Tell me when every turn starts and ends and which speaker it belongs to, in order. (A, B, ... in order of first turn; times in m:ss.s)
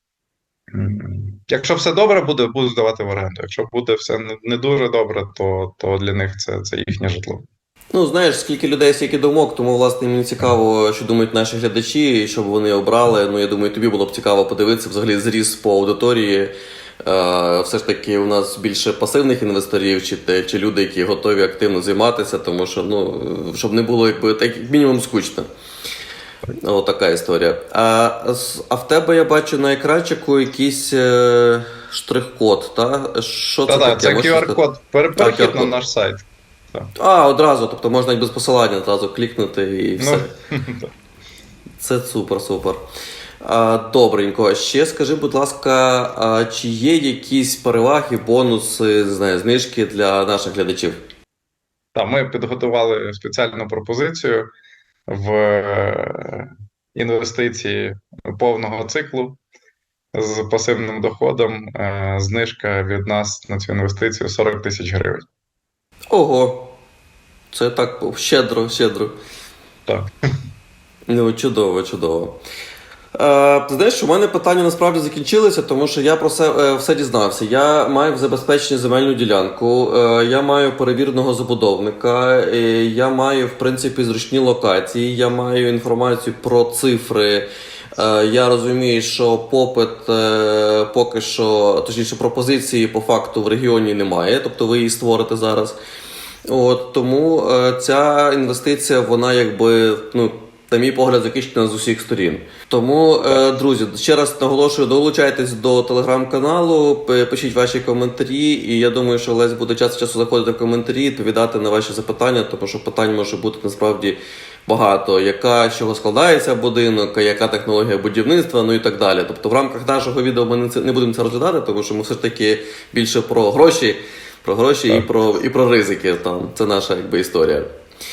0:00.7-0:07.4 A
0:07.9-0:16.5 B
0:17.0-0:25.5 B
0:26.6-0:34.6 B
0:33.7-0:36.2 A
0:35.2-0:35.7 B
0:37.0-0:40.3 B
0:40.0-0:40.9 A
0:41.8-0:42.8 B
0:43.4-0:51.0 B
0:51.9-0:54.5 A
0:55.1-0:59.4 A
1:00.1-1:05.2 A
1:06.1-1:06.8 B
1:07.5-1:09.2 B
1:11.1-1:12.4 B
1:13.2-1:35.8 B
1:36.5-2:07.7 B